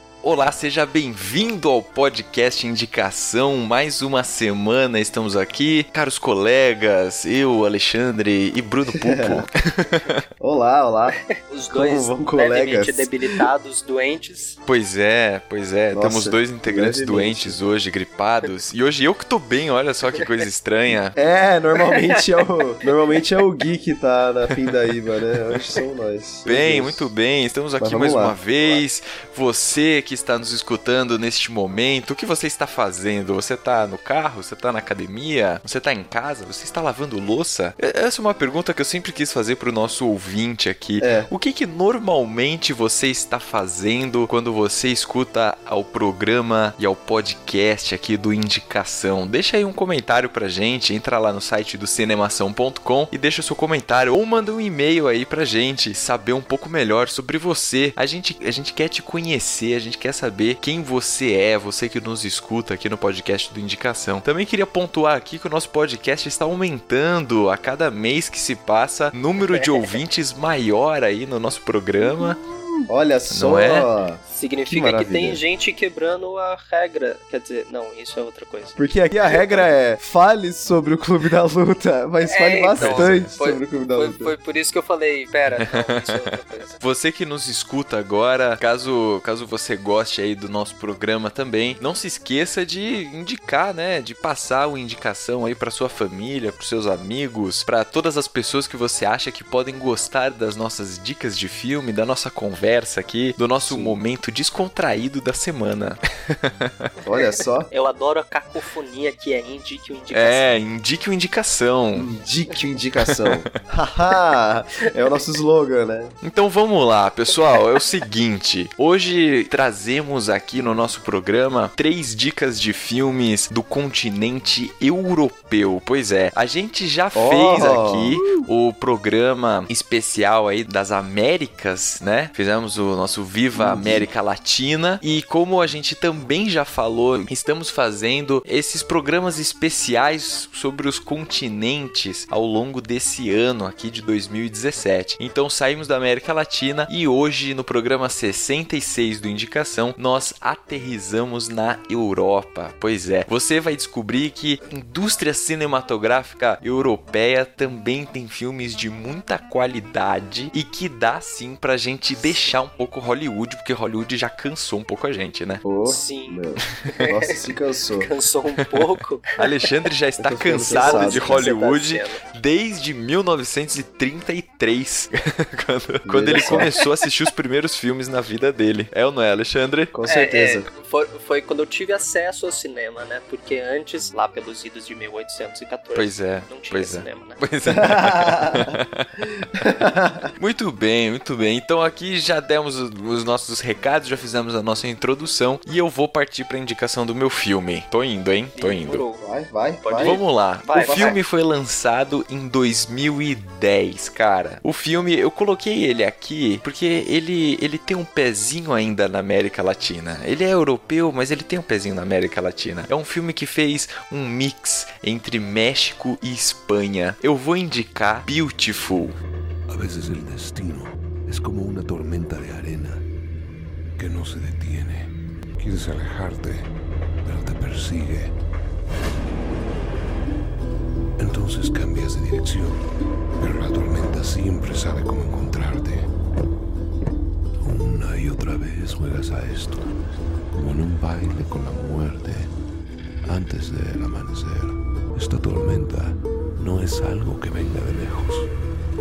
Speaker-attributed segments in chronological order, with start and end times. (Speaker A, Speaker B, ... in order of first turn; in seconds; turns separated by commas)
Speaker A: 0.2-10.2, Speaker B: 8.9-9.4, Speaker B: 10.4-11.2, Speaker C: 11.4-14.6, Speaker B: 11.7-13.1, Speaker A: 14.7-21.1, Speaker B: 15.9-17.6, Speaker B: 21.1-27.1, Speaker A: 26.4-72.4, Speaker B: 27.8-28.4, Speaker B: 41.0-41.3, Speaker C: 69.5-70.0, Speaker B: 72.0-75.4, Speaker A: 73.3-73.8, Speaker C: 74.3-78.8, Speaker B: 78.8-84.3, Speaker C: 82.2-86.8, Speaker A: 82.8-83.3, Speaker A: 86.8-106.9, Speaker B: 103.6-104.0, Speaker B: 107.0-107.7, Speaker C: 107.7-110.5, Speaker A: 110.1-112.1, Speaker B: 111.9-116.1, Speaker A: 113.0-113.4, Speaker A: 116.2-165.6, Speaker B: 127.1-128.2, Speaker B: 133.5-134.1, Speaker C: 162.2-162.5, Speaker B: 165.6-168.1, Speaker C: 165.8-166.4, Speaker C: 166.9-167.3, Speaker C: 168.0-169.3, Speaker A: 169.4-179.9, Speaker B: 170.2-171.5, Speaker C: 170.7-172.2, Speaker B: 176.1-176.7, Speaker C: 176.4-176.6, Speaker B: 179.9-180.7, Speaker C: 180.1-187.4, Speaker A: 185.9-189.1, Speaker B: 187.7-190.3, Speaker A: 190.4-199.0, Speaker C: 198.5-199.2, Speaker B: 199.2-201.2, Speaker C: 199.8-201.2, Speaker A: 200.0-219.2, Speaker D: 219.7-223.0, Speaker D: 224.0-226.7, Speaker D: 227.2-228.3, Speaker D: 231.2-232.9, Speaker D: 233.4-236.1, Speaker D: 237.6-239.9, Speaker D: 240.5-242.5, Speaker D: 243.2-248.5